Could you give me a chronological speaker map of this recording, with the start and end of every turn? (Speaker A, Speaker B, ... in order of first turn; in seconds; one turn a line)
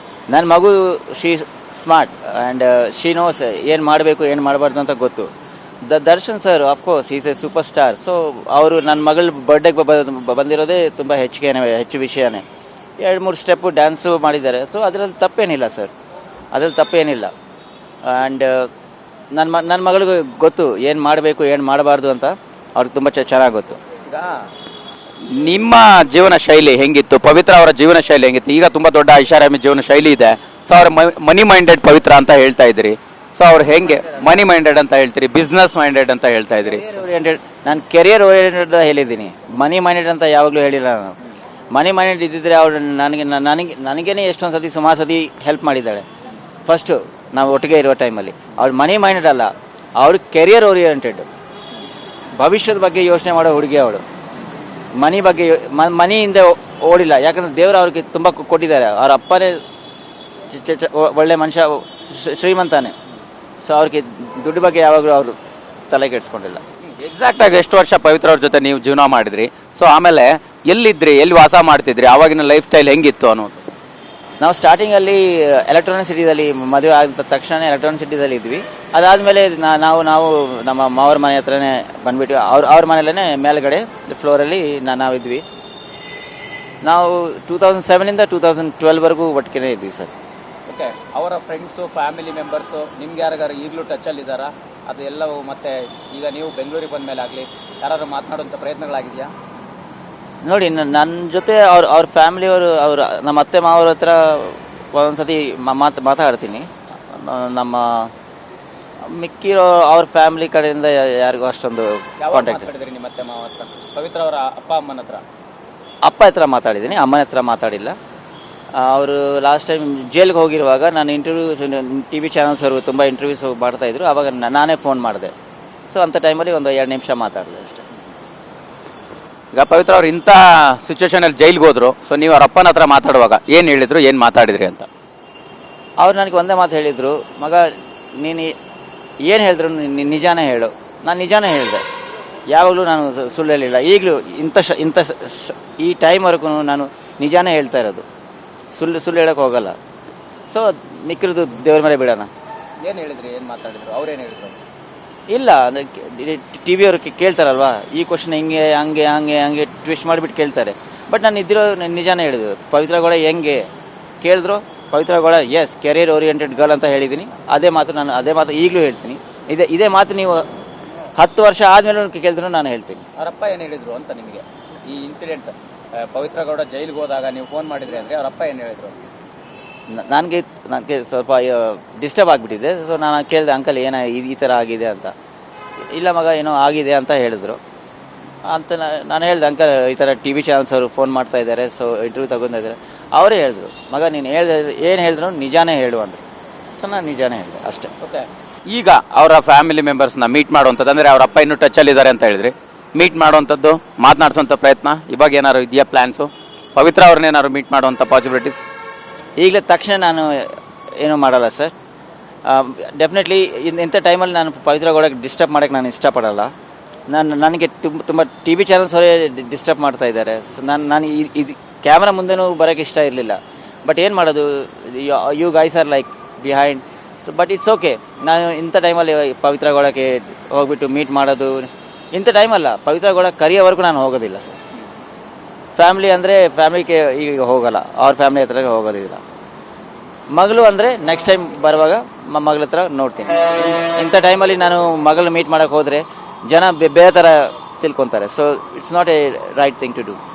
Speaker A: 0.3-5.3
Speaker A: 5.8-12.4
Speaker A: 13.0-15.9
Speaker A: 16.5-17.3
Speaker A: 18.0-18.7
Speaker A: 19.3-23.8
Speaker B: 24.1-24.5
Speaker B: 25.2-37.0
Speaker A: 36.6-41.1
Speaker A: 41.7-46.0
Speaker A: 46.7-51.2
Speaker A: 52.4-54.0
Speaker A: 55.0-59.6
Speaker A: 60.5-62.9
Speaker A: 63.6-65.3
Speaker A: 65.9-66.6
Speaker B: 67.0-73.6
Speaker A: 74.4-85.4
Speaker A: 86.8-90.1
Speaker B: 90.7-99.3
Speaker A: 100.4-108.1
Speaker A: 109.0-112.7
Speaker B: 112.2-115.2
Speaker A: 116.0-118.0
Speaker A: 118.7-125.3
Speaker A: 125.9-127.8
Speaker B: 129.5-134.9
Speaker A: 136.0-138.5
Speaker A: 139.2-141.8
Speaker A: 142.5-148.0
Speaker A: 148.7-149.7
Speaker A: 150.5-152.3
Speaker B: 152.8-154.6
Speaker A: 155.3-163.6
Speaker A: 164.2-170.4
Speaker A: 171.2-173.0
Speaker B: 173.2-178.9
Speaker A: 179.9-185.1
Speaker A: 185.9-187.6
Speaker A: 188.5-196.2
Speaker A: 196.8-197.9
Speaker B: 198.0-208.7
Speaker A: 209.4-211.7
Speaker A: 212.4-216.5
Speaker A: 217.1-234.5
Speaker A: 235.8-239.2
Speaker A: 240.3-250.2